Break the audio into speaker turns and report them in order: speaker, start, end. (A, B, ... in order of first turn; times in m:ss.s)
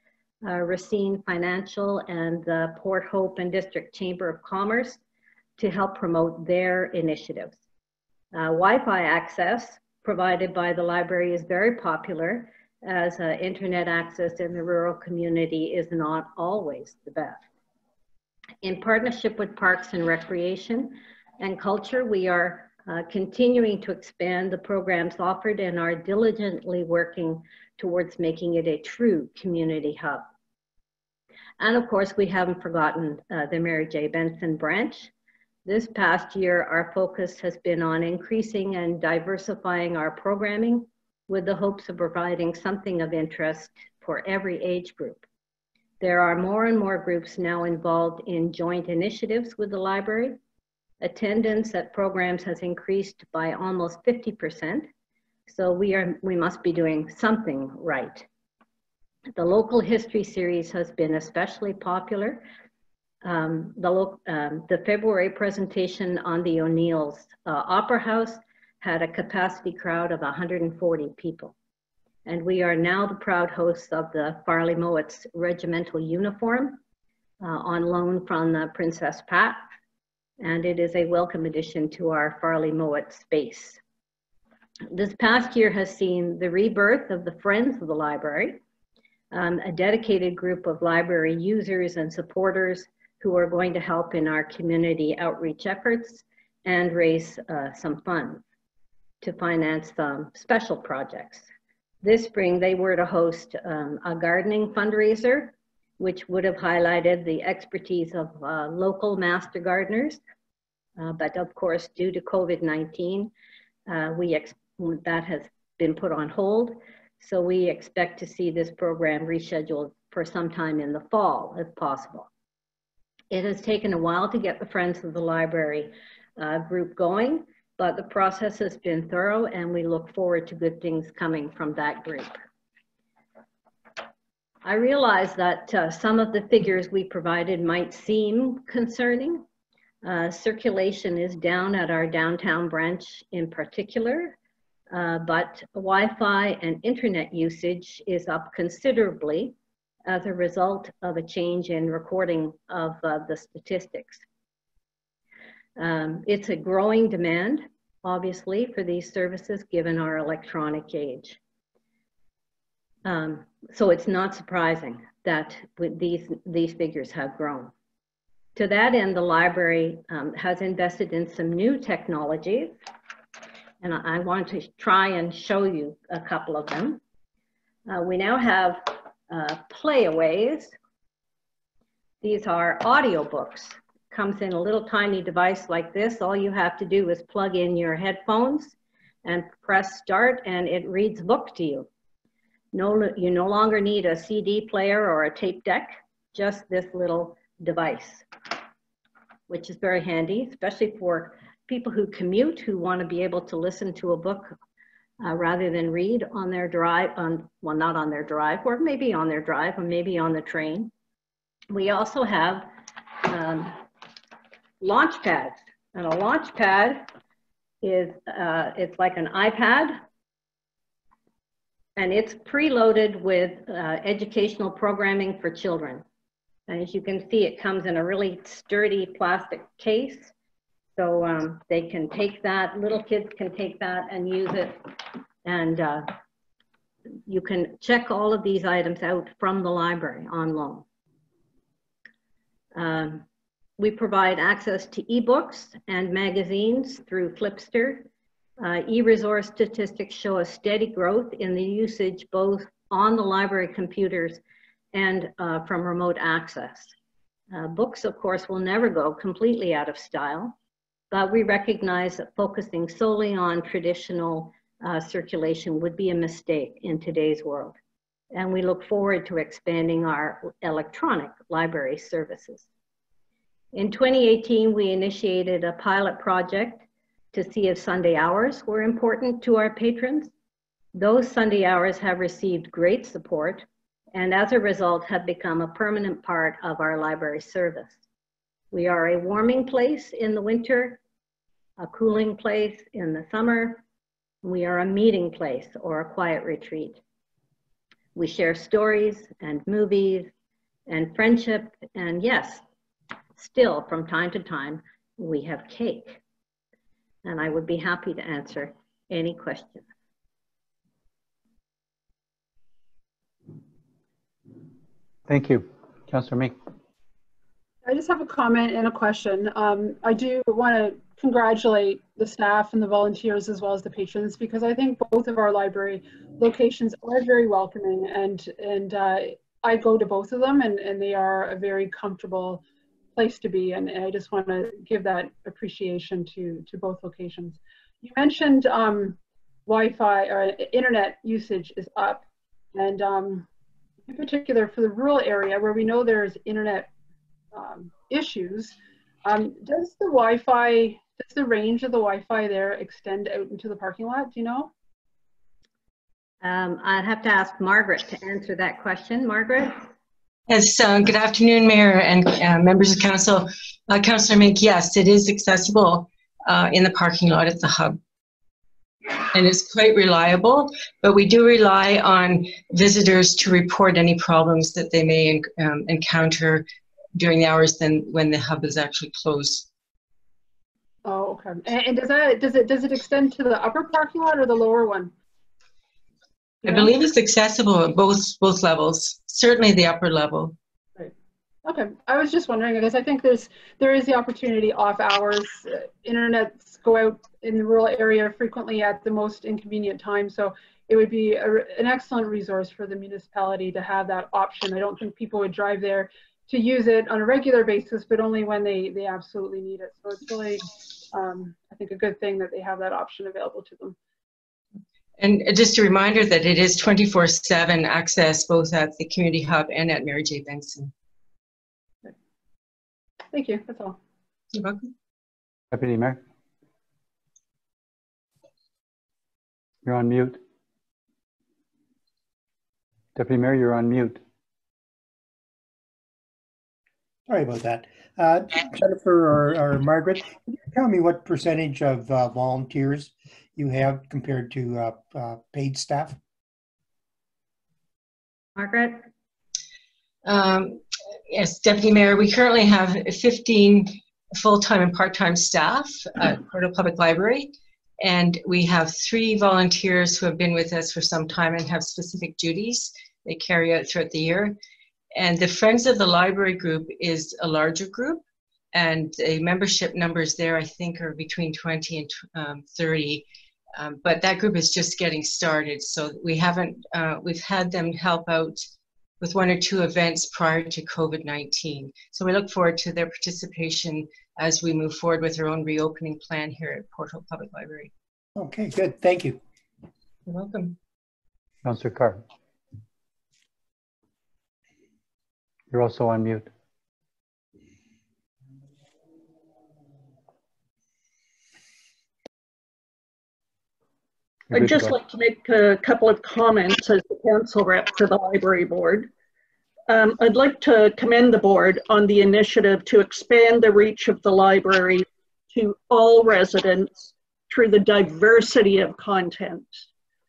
0:00.4-0:05.0 A
0:05.6-0:07.6 A
0:08.3-0:17.4 A
0:18.6-0:30.2 A
0:31.6-0:35.1 A
0:35.6-0:45.2 A
0:46.0-0:50.4 A
0:51.0-0:54.9 A
0:55.5-0:58.3 A
0:59.4-1:02.4 A
1:03.2-1:11.5 A
1:12.2-1:16.8 A
1:17.4-1:19.6 A
1:20.4-1:23.8 A
1:24.9-1:28.6 A
1:29.3-1:38.4 A
1:39.2-1:41.5 A
1:42.0-1:50.2 A
1:51.0-1:53.3 A
1:53.9-2:02.3 A
2:03.3-2:12.4 A
2:14.6-2:19.4 A
2:20.0-2:24.4 A
2:24.9-2:29.6 A
2:30.1-2:34.2 A
2:35.8-2:41.4 A
2:43.0-2:47.7 A
2:48.6-2:52.7 A
2:53.8-2:57.0 A
2:57.9-3:00.7 A
3:02.2-3:11.9 A
3:12.7-3:18.3 A
3:19.5-3:24.6 A
3:25.2-3:30.9 A
3:31.7-3:32.7 A
3:33.2-3:33.8 A
3:34.8-3:37.1 A
3:37.8-3:40.0 A
3:42.0-3:46.0 A
3:46.7-3:50.3 A
3:51.0-3:56.1 A
3:57.3-4:00.8 A
4:02.7-4:03.2 A
4:03.8-4:08.0 A
4:08.6-4:14.4 A
4:14.9-4:16.9 A
4:17.5-4:20.6 A
4:21.1-4:27.8 A
4:28.3-4:32.6 A
4:33.7-4:40.3 A
4:40.9-4:48.0 A
4:48.7-4:51.0 A
4:51.8-4:53.8 A
4:54.4-4:57.0 A
4:58.1-5:00.3 A
5:00.9-5:02.6 A
5:03.4-5:06.2 A
5:07.2-5:09.8 A
5:15.3-5:16.6 B
5:17.8-5:32.6 C
5:33.2-5:43.5 C
5:44.1-5:46.9 C
5:47.5-5:54.7 C
5:56.4-5:59.8 A
6:00.5-6:08.0 D
6:09.1-6:19.7 D
6:21.0-6:25.1 C
6:26.6-6:30.6 D
6:31.6-6:54.0 C
6:55.2-7:00.9 D
7:03.3-7:04.0 C
7:04.5-7:04.9 D
7:05.7-7:06.2 B
7:09.8-7:10.4 B
7:13.2-7:14.2 B
7:17.3-7:26.2 E
7:28.6-7:29.0 A
7:30.2-7:44.6 D
7:45.1-7:58.6 D
7:59.2-8:07.9 D
8:08.4-8:09.4 E
8:10.2-8:10.8 D
8:11.6-8:12.2 B
8:15.7-8:16.5 B
8:24.5-8:25.0 B
8:24.5-8:29.1 F
8:29.9-8:39.8 F